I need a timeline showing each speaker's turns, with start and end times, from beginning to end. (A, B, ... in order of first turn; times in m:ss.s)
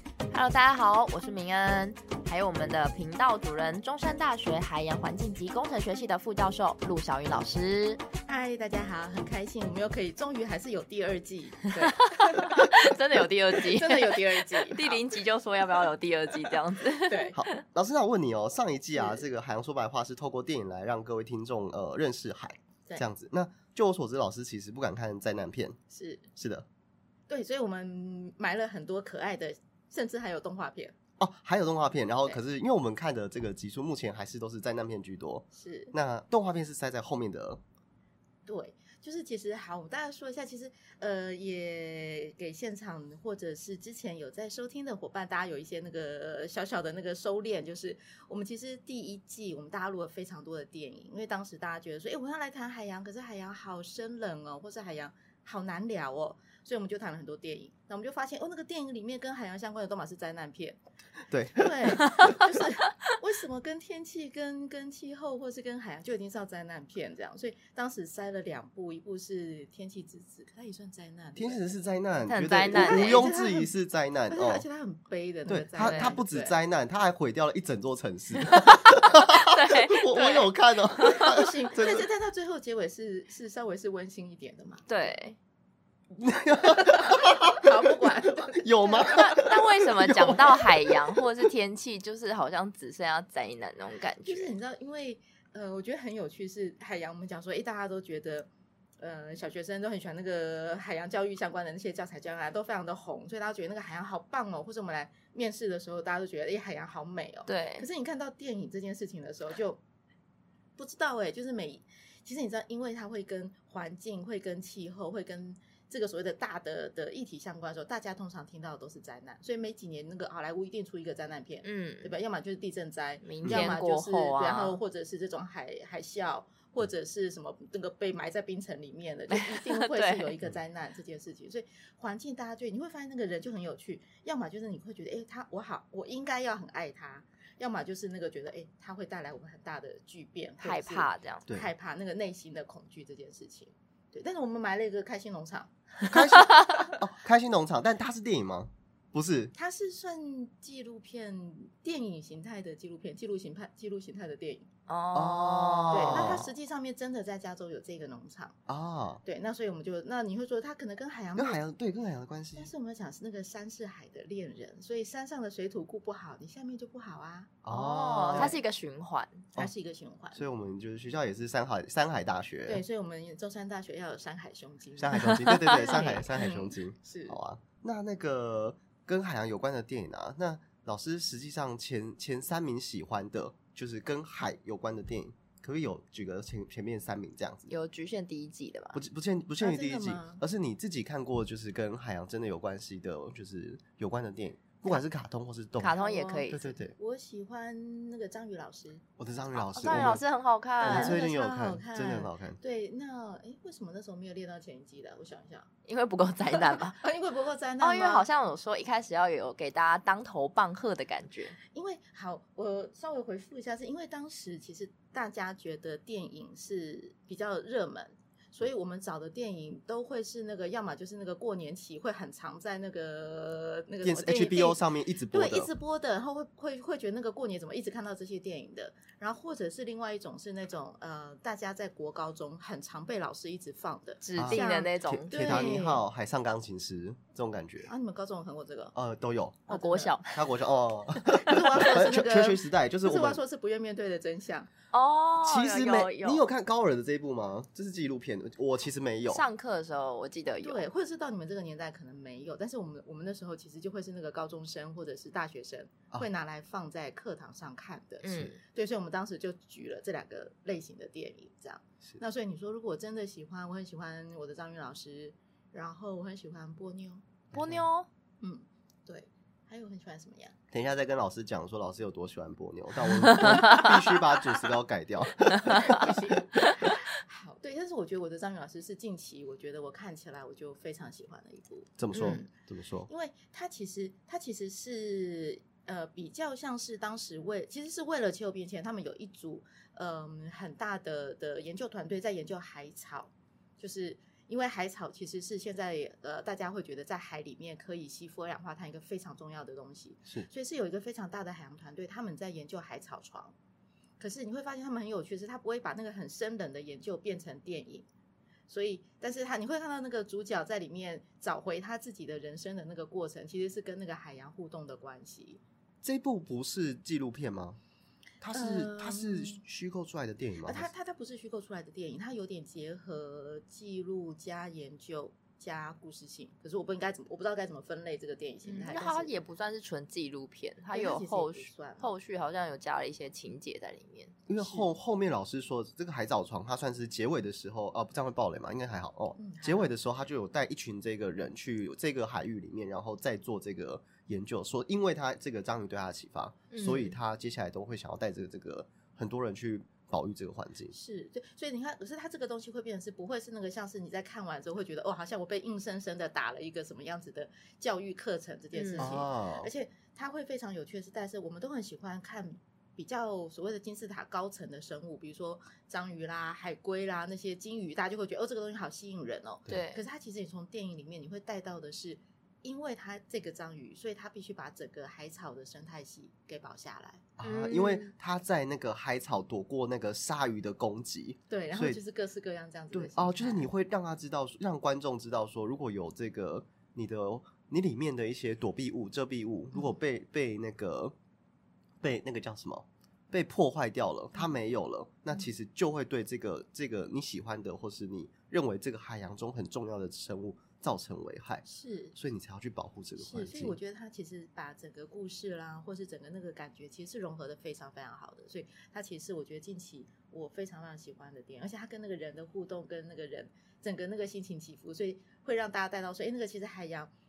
0:00.3-0:08.0 A
0:08.2-0:12.9 B
0:11.8-0:17.6 A
0:13.6-0:15.0 B
0:17.0-0:17.3 B
0:17.3-0:25.8 C
0:18.9-0:19.2 B
0:25.9-0:26.3 B
0:26.4-0:26.6 C
0:27.3-0:31.0 B
0:31.2-0:37.6 C
0:35.5-0:35.9 B
0:38.4-1:00.8 B
1:01.3-1:02.2 C
1:01.5-1:11.7 B
1:11.4-1:14.6 C
1:12.2-1:13.2 A
1:12.7-1:13.7 B
1:14.3-1:16.6 B
1:15.5-1:22.0 C
1:15.8-1:16.2 A
1:18.7-1:20.5 A
1:21.0-1:25.2 B
1:24.9-1:25.4 A
1:26.1-1:27.7 C
1:26.7-1:29.4 B
1:28.5-1:31.5 C
1:29.1-1:34.5 A
1:34.2-1:49.8 B
1:47.4-1:47.9 A
1:50.8-2:25.7 B
2:01.6-2:02.1 A
2:03.2-2:04.8 A
2:03.4-2:03.7 C
2:09.3-2:10.4 A
2:20.6-2:21.4 A
2:21.5-2:21.7 C
2:26.1-2:29.5 C
2:29.5-2:34.7 B
2:34.9-2:36.4 A
2:35.1-2:36.5 C
2:35.9-2:38.6 B
2:38.7-2:39.2 C
2:39.2-2:41.6 B
2:41.4-2:42.7 C
2:42.5-2:47.6 B
2:47.6-2:48.6 C
2:47.7-2:49.4 A
2:48.3-2:48.6 B
2:49.5-2:50.4 B
2:50.3-2:52.8 C
2:52.6-2:57.4 B
2:55.0-3:07.7 C
2:55.1-2:56.2 A
3:07.7-3:09.0 A
3:08.9-3:16.9 C
3:09.6-3:10.4 B
3:15.8-3:16.6 A
3:16.0-3:19.0 B
3:19.2-3:20.2 C
3:19.6-3:20.2 B
3:19.7-3:21.2 A
3:20.8-3:22.6 C
3:20.8-3:25.7 B
3:25.8-3:27.0 A
3:26.5-3:28.3 B
3:27.8-3:31.6 A
3:31.6-3:56.0 B
3:44.0-3:45.7 C
3:54.2-3:55.8 A
3:54.4-3:57.9 C
3:57.9-3:58.9 B
3:58.9-3:59.7 C
3:59.7-4:00.5 A
3:59.7-4:00.2 B
4:00.3-4:03.4 C
4:01.4-4:04.7 B
4:04.9-4:06.4 A
4:05.4-4:09.4 C
4:09.3-4:10.8 A
4:10.6-4:27.3 B
4:18.2-4:18.6 A
4:27.5-4:27.9 C
4:27.5-4:28.1 A
4:28.4-4:30.5 B
4:30.7-4:36.1 C
4:33.3-4:33.9 A
4:35.7-4:42.4 B
4:42.0-4:43.1 C
4:42.1-4:42.4 A
4:43.1-5:03.5 B
5:04.2-5:08.0 B
5:08.7-5:15.6 B
5:16.0-5:17.8 C
5:18.4-5:20.9 C
5:18.5-5:19.6 B
5:20.6-5:29.3 B
5:28.6-5:34.3 A
5:30.9-5:32.1 B
5:34.5-5:50.9 C
5:34.6-5:34.9 B
5:39.4-5:40.0 B
5:46.7-5:47.2 A
5:50.9-6:17.2 B
5:58.7-5:59.2 A
5:59.0-5:59.7 C
6:09.7-6:10.0 A
6:17.4-6:22.0 C
6:17.4-6:18.1 A
6:21.5-6:23.7 B
6:22.9-6:31.1 C
6:32.0-6:41.6 C
6:41.6-6:42.1 B
6:42.2-6:43.8 C
6:43.2-6:57.1 B